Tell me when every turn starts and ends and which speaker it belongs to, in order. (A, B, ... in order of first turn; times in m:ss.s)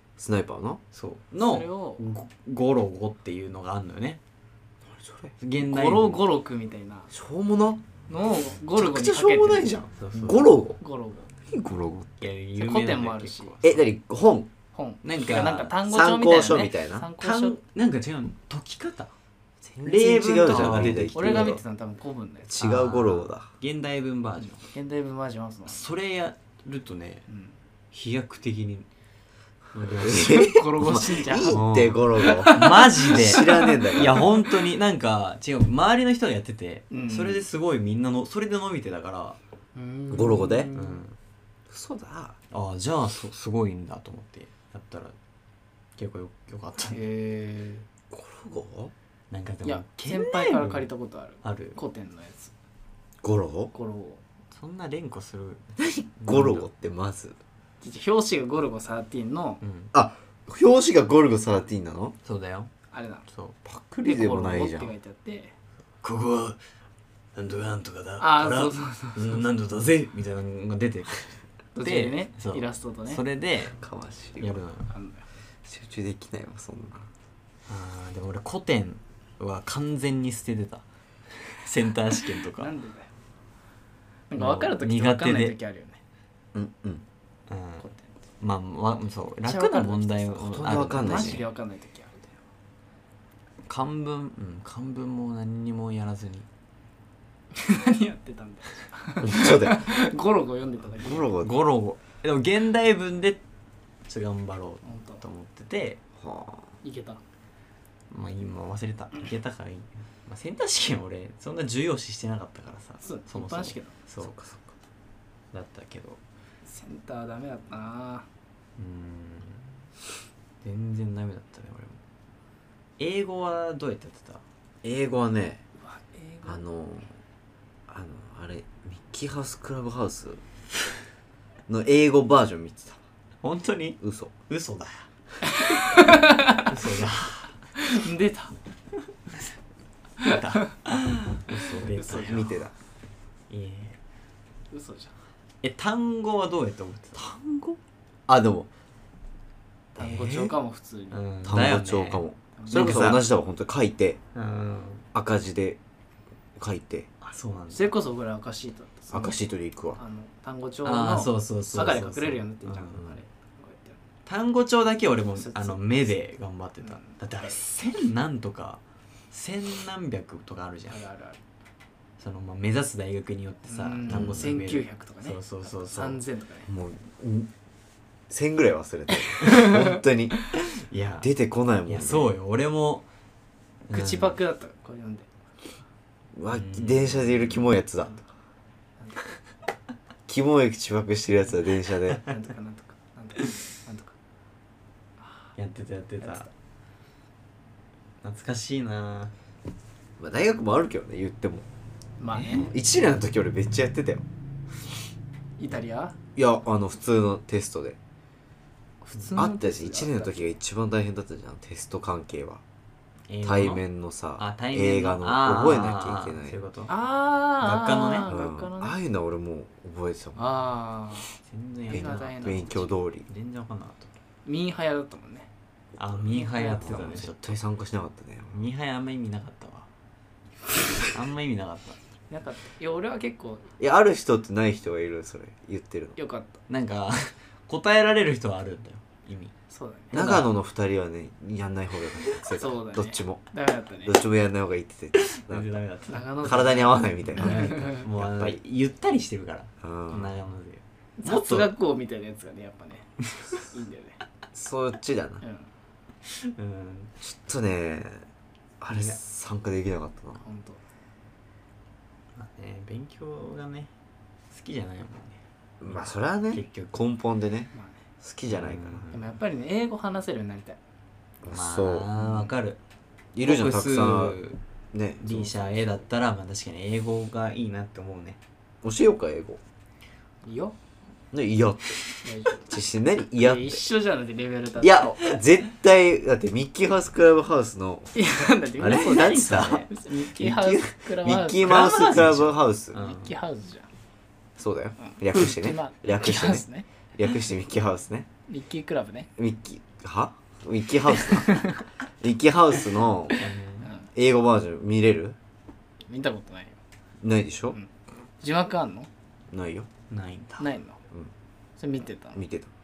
0:00.2-0:00.8 A
0:00.9-0:04.2 B
0:01.4-0:02.0 C
0:04.8-0:05.3 A
0:05.4-0:06.2 B
0:05.6-0:07.1 C
0:07.1-0:07.8 A
0:08.1-0:09.7 C
0:08.7-0:10.8 A
0:10.0-0:10.6 B
0:10.8-0:11.3 C
0:11.5-0:12.3 A
0:12.2-0:13.8 B
0:12.6-0:13.5 C
0:13.6-0:14.5 A
0:14.7-0:17.6 C
0:15.0-0:15.8 B
0:15.8-0:17.1 A
0:17.2-0:19.1 B
0:19.8-0:21.6 A
0:19.8-0:21.6 B
0:20.4-0:22.6 C
0:22.5-0:23.5 A
0:22.6-0:24.6 B
0:24.7-0:25.8 C
0:25.7-0:27.2 B
0:27.3-0:27.6 C
0:27.9-0:28.9 B
0:29.7-0:30.6 B
0:29.8-0:34.5 A
0:30.2-0:31.6 C
0:31.5-0:39.4 B
0:32.2-0:32.8 C
0:33.5-0:33.8 C
0:36.9-0:37.5 C
0:39.8-0:41.1 C
0:40.1-0:40.7 A
0:40.8-0:41.2 B
0:41.7-0:42.4 A
0:42.5-0:45.2 B
0:46.0-0:47.0 B
0:46.9-0:47.9 C
0:48.1-0:48.9 A
0:49.3-0:50.9 B
0:49.6-0:52.5 C
0:51.4-0:51.8 B
0:53.2-0:53.7 A
0:53.7-0:54.2 C
0:54.5-0:56.7 B
0:55.8-0:57.4 A
0:57.8-0:59.6 C
0:59.6-0:59.9 B
0:59.9-1:02.2 A
1:02.2-1:02.7 B
1:02.9-1:03.3 C
1:03.3-1:03.6 B
1:03.6-1:04.9 A
1:04.0-1:05.5 C
1:06.0-1:06.6 B
1:07.4-1:13.8 B
1:08.2-1:09.5 C
1:11.8-1:13.2 C
1:13.8-1:14.6 A
1:14.4-1:14.9 B
1:14.9-1:15.3 C
1:15.6-1:17.1 A
1:17.7-1:22.7 B
1:22.6-1:23.1 C
1:24.3-1:26.0 C
1:24.4-1:25.6 B
1:26.5-1:27.0 A
1:27.5-1:27.9 B
1:27.8-1:28.1 C
1:28.4-1:31.5 B
1:29.4-1:32.4 C
1:30.4-1:31.4 A
1:33.7-1:36.5 B
1:37.6-1:41.3 C
1:39.2-1:39.9 A
1:41.0-1:41.6 A
1:41.4-1:43.4 B
1:44.1-1:46.0 B
1:44.8-1:45.2 C
1:46.2-1:46.7 A
1:46.8-1:47.2 C
1:48.1-1:54.4 B
1:53.0-1:54.0 C
1:54.2-1:54.7 A
1:55.5-1:56.2 B
1:56.7-1:58.3 C
1:58.8-1:59.8 B
2:00.6-2:02.0 B
2:03.0-2:04.4 B
2:04.8-2:05.6 A
2:05.8-2:06.6 C
2:06.4-2:07.2 A
2:07.9-2:10.4 A
2:11.7-2:13.0 A
2:13.4-2:17.6 B
2:14.0-2:14.3 A
2:15.5-2:16.7 C
2:17.8-2:18.6 C
2:20.2-2:22.6 B
2:21.5-2:22.7 A
2:21.9-2:22.5 C
2:23.5-2:24.0 B
2:24.7-2:25.1 C
2:25.6-2:27.8 B
2:28.3-2:28.7 A
2:30.0-2:30.5 A
2:30.0-2:31.2 C
2:31.1-2:33.2 B
2:31.4-2:34.2 A
2:32.6-2:33.1 C
2:34.3-2:35.0 B
2:35.1-2:35.8 A
2:36.6-2:37.1 A
2:37.2-2:38.0 B
2:37.7-2:39.4 C
2:39.1-2:40.0 A
2:40.0-2:44.0 C
2:40.8-2:43.1 B
2:44.3-2:51.0 B
2:45.4-2:46.0 C
2:46.8-2:47.6 C
2:50.9-2:51.4 C
2:52.2-2:56.2 B
2:53.7-2:56.7 C
2:54.1-2:54.5 A
2:56.7-2:57.5 A
2:58.3-3:00.5 A
3:00.7-3:01.3 B
3:01.2-3:02.3 A
3:01.9-3:03.1 B
3:03.9-3:04.4 B
3:03.9-3:05.3 C
3:06.4-3:08.2 A
3:06.5-3:07.7 B
3:10.3-3:12.2 A
3:12.2-3:14.1 C
3:15.6-3:16.5 B
3:16.2-3:16.5 C
3:18.2-3:19.3 B
3:20.2-3:21.7 A
3:22.2-3:22.7 C
3:22.4-3:24.2 A
3:25.6-3:26.2 C
3:26.4-3:28.0 A
3:29.0-3:30.4 C
3:29.2-3:29.5 B
3:29.4-3:32.6 A
3:33.3-3:33.8 B
3:33.4-3:36.6 A
3:34.4-3:36.9 B
3:36.9-3:39.0 C
3:37.6-3:38.3 B
3:38.3-3:40.4 A
3:40.4-3:41.3 C
3:41.4-3:44.1 B
3:41.9-3:42.8 C
3:41.9-3:43.3 A
3:44.4-3:45.5 C
3:46.0-3:47.6 B
3:46.3-3:47.2 C
3:46.7-3:48.6 A
3:48.5-3:49.9 B
3:51.0-3:52.0 B
3:52.3-3:53.7 C
3:53.8-3:56.2 A
3:56.2-3:56.6 C
3:56.7-3:59.5 B
3:59.7-4:00.4 C
4:00.1-4:00.5 B
4:00.1-4:03.4 A
4:02.5-4:04.2 C
4:04.0-4:05.7 A
4:05.2-4:11.7 B
4:06.1-4:08.0 C
4:06.4-4:08.6 A
4:09.8-4:10.3 A
4:11.2-4:14.2 C
4:14.5-4:15.4 A
4:15.4-4:15.7 C
4:16.3-4:17.1 B
4:17.2-4:18.3 A
4:18.8-4:20.4 A
4:18.9-4:19.2 B
4:20.4-4:20.8 C
4:22.4-4:23.9 B
4:24.5-4:26.9 B
4:25.8-4:29.1 A
4:27.7-4:28.0 C
4:28.5-4:29.4 B
4:29.1-4:30.8 C
4:31.4-4:32.1 A
4:31.5-4:32.8 B
4:32.2-4:32.5 C
4:33.3-4:34.4 A
4:33.4-4:34.6 B
4:34.9-4:35.5 A
4:35.2-4:38.4 B
4:38.8-4:39.6 A
4:40.4-4:40.8 C
4:41.3-4:42.0 A
4:42.2-4:42.7 C
4:42.6-4:43.8 A
4:43.4-4:45.2 C
4:44.8-4:48.2 A
4:48.1-4:52.2 C
4:48.8-4:53.0 A
4:49.0-4:49.9 B
4:51.6-4:53.3 B
4:52.9-4:53.9 C
4:54.6-4:58.3 A
4:55.0-4:56.9 C
4:58.5-4:59.3 C
4:59.4-5:01.7 A
5:01.3-5:01.8 C
5:02.2-5:03.4 A
5:03.4-5:03.9 B
5:03.8-5:04.1 C
5:04.2-5:05.4 A
5:06.1-5:06.8 C
5:07.2-5:07.8 A
5:07.7-5:09.1 C
5:09.5-5:09.9 A
5:10.1-5:10.7 B
5:10.6-5:11.0 C
5:11.8-5:12.4 C
5:12.4-5:12.7 A